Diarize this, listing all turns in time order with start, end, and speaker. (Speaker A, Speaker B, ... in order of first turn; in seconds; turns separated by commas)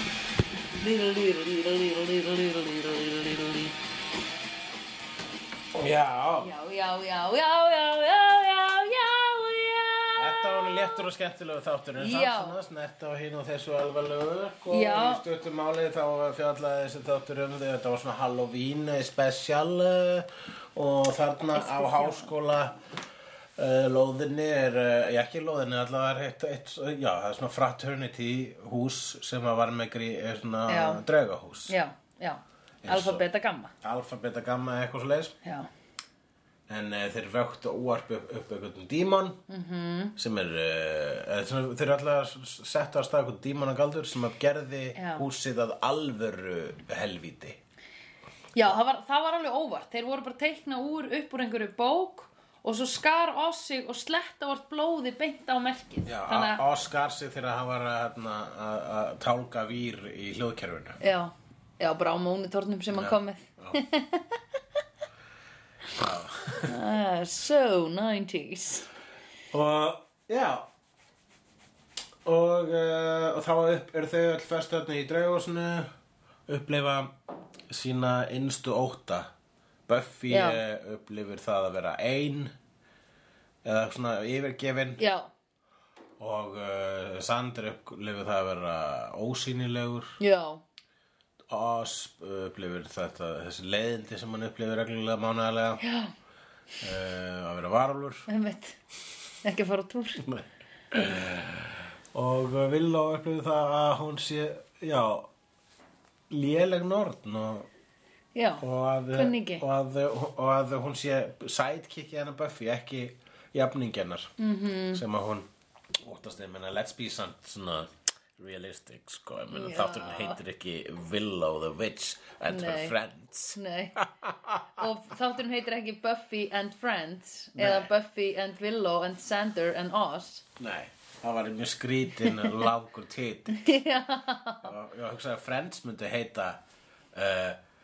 Speaker A: 0.8-2.8, Speaker B: 5.7-6.5, Speaker A: 6.4-11.0, Speaker B: 10.2-22.7, Speaker A: 12.0-12.6, Speaker A: 14.7-15.2, Speaker A: 21.5-22.3, Speaker B: 23.6-31.8, Speaker A: 30.7-31.0, Speaker A: 31.7-33.7, Speaker B: 32.8-33.2, Speaker B: 33.8-35.3, Speaker A: 35.4-35.7, Speaker B: 36.7-39.4, Speaker A: 39.5-40.1, Speaker B: 40.2-47.6, Speaker A: 45.0-45.2, Speaker A: 48.5-56.6, Speaker B: 56.0-61.0, Speaker A: 61.0-64.4, Speaker B: 62.9-63.8, Speaker B: 65.9-66.8, Speaker A: 66.6-68.9, Speaker B: 69.5-70.7, Speaker B: 72.2-75.9, Speaker B: 76.5-77.1, Speaker B: 77.7-79.3, Speaker B: 79.9-82.5, Speaker A: 80.3-80.6, Speaker B: 83.6-85.0, Speaker A: 85.0-85.3, Speaker B: 86.2-90.2, Speaker A: 90.2-90.6, Speaker B: 91.5-95.8, Speaker A: 95.8-96.1, Speaker B: 96.8-98.3, Speaker A: 98.3-98.8, Speaker A: 99.4-100.2, Speaker B: 100.2-105.3, Speaker B: 106.3-107.7, Speaker A: 108.3-109.6, Speaker B: 108.6-114.3, Speaker A: 114.4-115.0, Speaker B: 114.9-115.5, Speaker B: 116.0-124.8, Speaker A: 119.5-120.4, Speaker A: 122.5-123.0, Speaker A: 123.5-124.0, Speaker A: 124.8-130.4, Speaker B: 127.5-127.9, Speaker B: 130.6-133.7, Speaker A: 132.2-132.5, Speaker A: 133.5-134.7, Speaker B: 134.6-136.6, Speaker B: 137.1-137.6